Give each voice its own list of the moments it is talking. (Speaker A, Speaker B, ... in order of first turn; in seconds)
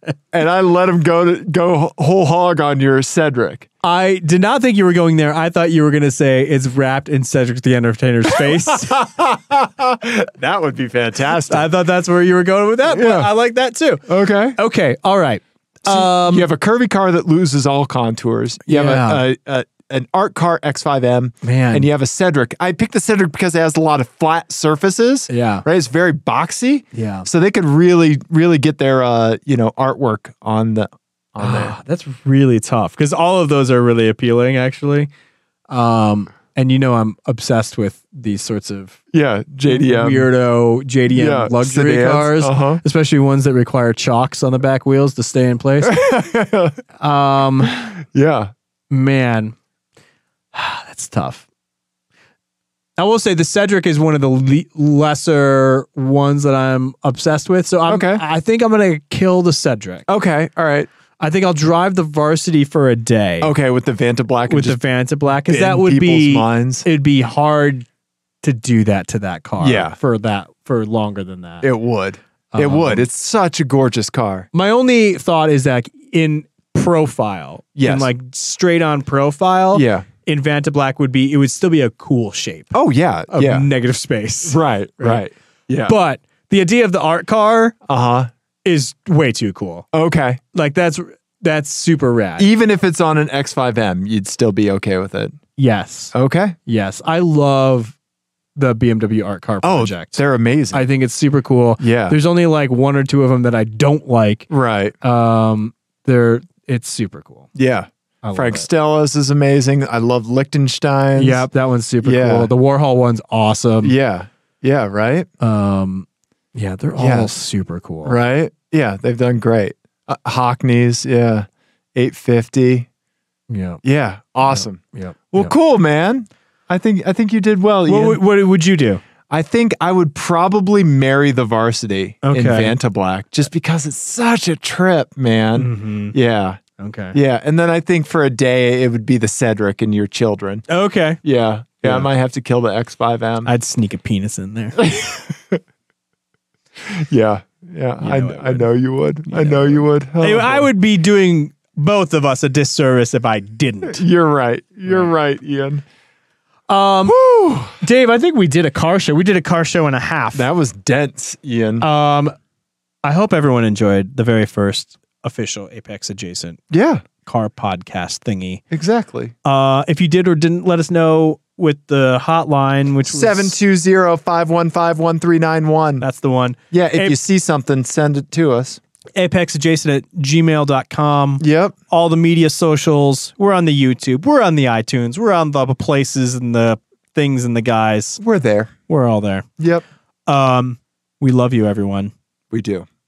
Speaker A: 0.3-3.7, 8.3-11.7, 12.9-13.3, 14.1-14.6, 15.8-31.8, 39.1-40.3, 41.1-42.8, 45.8-46.8, 47.6-48.5, 57.9-58.2, 60.1-60.9, 63.4-64.8, 65.4-66.8, 69.6-70.0, 71.6-74.5, 77.8-78.1, 79.7-80.1, 82.7-83.7, 84.5-86.0, 87.9-88.3, 89.9-90.4, 92.4-95.4, 96.1-96.5, 99.6-100.8, 101.8-102.2, 104.5-104.9, 107.5-111.5, 112.0-112.5, 113.8-115.3, 117.0-117.3, 118.0-122.9, 123.8-124.8, 125.3-128.2, 129.3-136.6, 137.1-140.6, 141.2-143.5, 144.8-145.6, 146.8-150.7, 153.8-155.8, 157.0-157.8, 160.3-161.8, 166.7-167.0, 168.7-169.3, 173.1-176.1, 176.7-178.8, 181.4-181.7, 188.2-188.7, 189.6-189.8, 192.5-192.9
Speaker B: 3.8-9.0, 11.4-16.5, 18.6-19.2, 21.4-21.9, 25.3-25.6, 26.9-27.3, 31.4-35.1, 35.7-39.0, 39.7-46.0, 47.0-47.8, 48.9-49.5, 50.5-51.5, 53.0-60.1, 61.2-63.5, 64.5-67.8, 68.4-71.7, 72.5-73.0, 74.5-82.7, 83.3-85.2, 85.8-87.8, 88.6-89.8, 90.5-92.5, 95.6-96.1, 96.7-97.9, 98.5-100.2, 100.7-104.5, 105.0-107.5, 108.2-108.7, 111.2-113.9, 115.4-118.2, 123.5-123.8, 124.5-125.5, 127.8-129.0, 132.2-132.8, 135.6-136.1, 136.8-137.2, 140.7-141.2, 141.8-142.1, 143.4-144.8, 148.0-148.7, 149.3-154.0, 156.7-157.2, 157.8-160.4, 161.8-162.3, 163.0-166.6, 167.2-168.6, 169.4-173.6, 176.0-177.2, 179.2-188.2, 188.9-189.5, 190.3-192.1